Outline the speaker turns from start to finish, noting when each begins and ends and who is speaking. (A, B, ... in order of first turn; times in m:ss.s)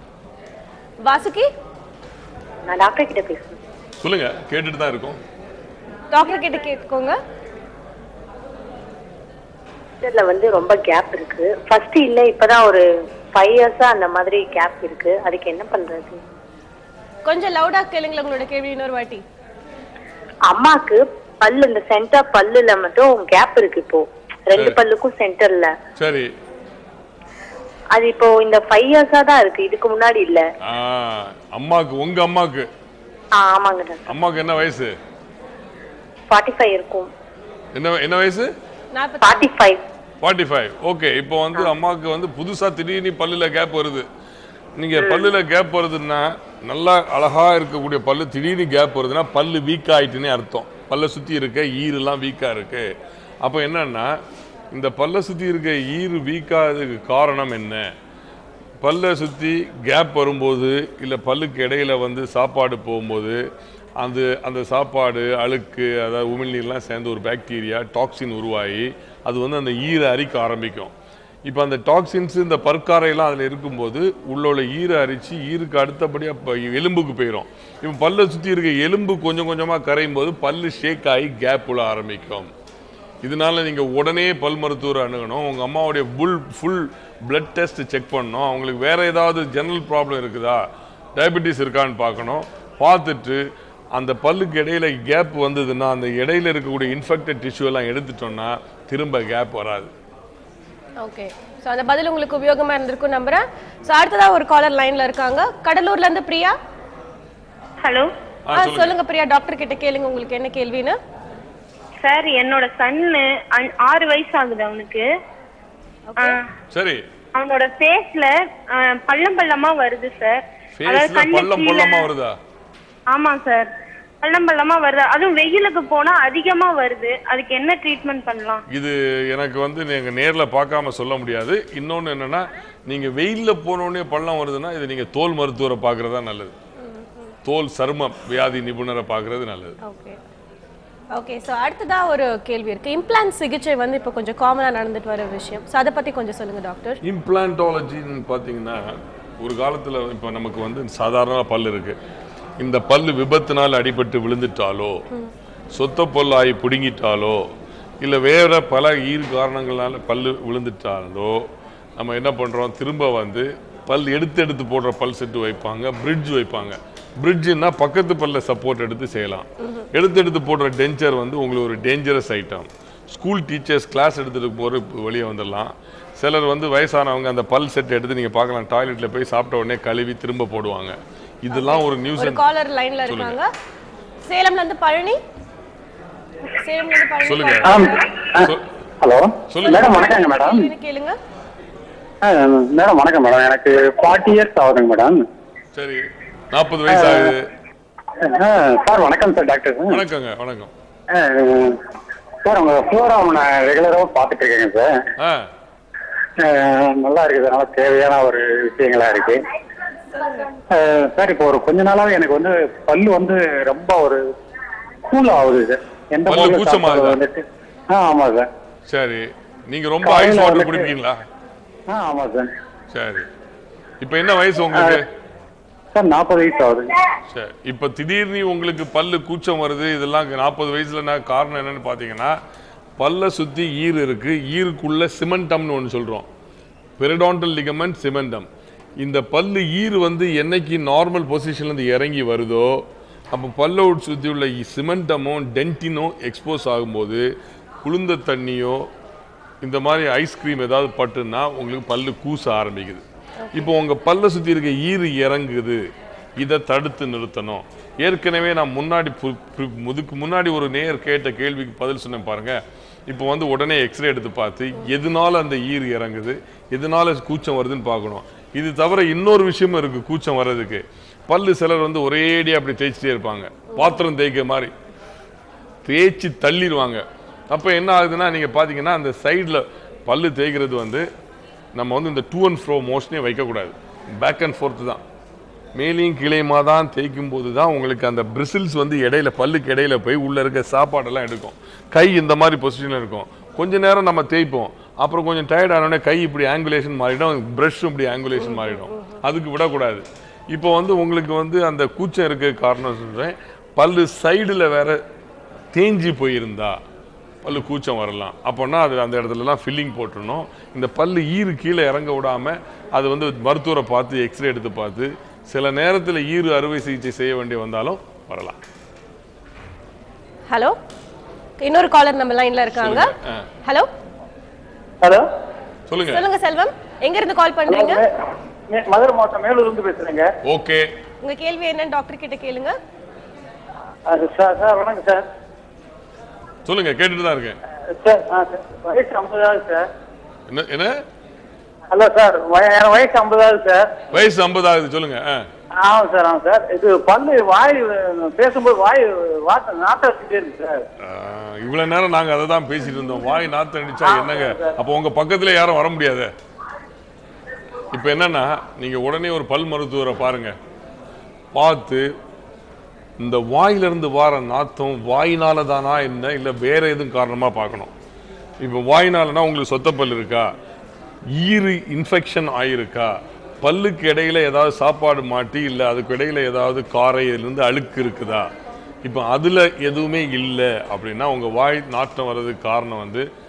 0:01.0-0:01.5 A
0:02.7-0:03.6 B
0:04.0-0:05.2 C
0:06.1-0:07.2 A
0:10.0-0:16.2 B
0:17.2-0:19.2 A
0:20.5-0:25.7 B
0:24.5-0:24.8 C
0:26.0-0:26.3 C
0:27.9-0:30.4 B
0:30.6-0:32.7 C
0:33.4-0:34.1 B
0:34.1-0:34.9 C
0:36.3-0:37.1 B
0:37.7-0:38.5 C
0:38.9-0:39.5 A
0:39.2-0:39.8 B
0:40.2-0:44.0 C
0:44.8-0:52.8 C
0:44.9-0:45.3 B
0:53.4-0:54.1 C
0:54.7-0:57.8 C
0:58.8-1:03.4 C
1:04.0-1:10.9 C
1:11.4-1:22.5 C
1:23.2-1:33.4 C
1:33.9-1:39.9 C
1:41.0-1:46.6 A
1:47.8-1:48.1 D
1:48.5-1:48.9 C
1:48.5-1:51.0 A
1:52.0-1:55.0 D
1:56.1-1:56.4 A
1:56.7-1:57.0 C
1:57.3-2:02.1 D
2:00.8-2:02.4 C
2:03.1-2:03.7 D
2:04.2-2:08.6 D
2:08.7-2:16.5 C
2:16.8-2:17.3 A
2:17.4-2:19.8 C
2:19.8-2:20.2 A
2:21.1-2:27.0 A
2:27.0-2:32.0 C
2:32.6-2:35.0 C
2:35.7-2:37.4 C
2:38.0-2:41.4 C
2:42.0-3:02.4 C
3:01.5-3:03.5 A
3:03.0-3:03.4 C
3:04.2-3:05.2 A
3:06.5-3:08.0 A
3:07.2-3:07.9 C
3:07.6-3:10.6 E
3:09.5-3:10.0 C
3:09.6-3:11.2 A
3:12.2-3:15.2 E
3:15.7-3:17.5 C
3:16.9-3:17.3 E
3:18.2-3:20.0 E
3:19.9-3:20.7 C
3:21.1-3:21.8 E
3:22.4-3:25.0 E
3:25.2-3:25.4 C
3:26.4-3:29.4 E
3:30.1-3:30.4 A
3:30.7-3:34.2 E
3:35.1-3:38.5 E
3:36.3-3:37.2 C
3:38.9-3:41.2 C
3:40.0-3:40.9 E
3:41.9-3:42.5 E
3:42.9-3:43.3 C
3:44.0-3:45.0 C
3:44.7-3:45.0 E
3:45.9-3:46.9 E
3:47.3-3:52.4 C
3:53.0-3:56.3 C
3:57.0-3:58.5 C
3:59.0-4:07.2 C
4:07.8-4:08.9 C
4:09.6-4:15.8 C
4:13.4-4:13.7 A
4:16.4-4:34.7 C
4:33.7-4:34.0 A
4:35.8-4:41.0 C
4:41.7-4:45.0 C
4:45.8-5:05.0 C
4:58.4-4:59.2 A
5:05.7-5:06.8 C
5:07.4-5:18.6 C
5:20.5-5:20.8 A
5:21.6-5:23.1 A
5:22.8-5:23.4 C
5:23.6-5:23.9 A
5:25.9-5:26.2 C
5:26.0-5:28.0 A
5:27.7-5:28.0 F
5:28.7-5:30.2 F
5:30.4-5:30.8 C
5:31.2-5:32.8 A
5:34.1-5:35.2 F
5:36.6-5:37.6 C
5:38.0-5:39.8 F
5:40.5-5:40.9 C
5:41.9-5:44.0 F
5:44.1-5:45.4 C
5:45.8-5:50.8 F
5:51.0-5:56.3 C
5:54.0-5:54.7 F
5:57.9-6:00.5 C
6:01.5-6:02.0 C
6:03.2-6:07.9 C
6:08.6-6:10.5 C
6:11.3-6:18.5 C
6:19.0-6:23.3 C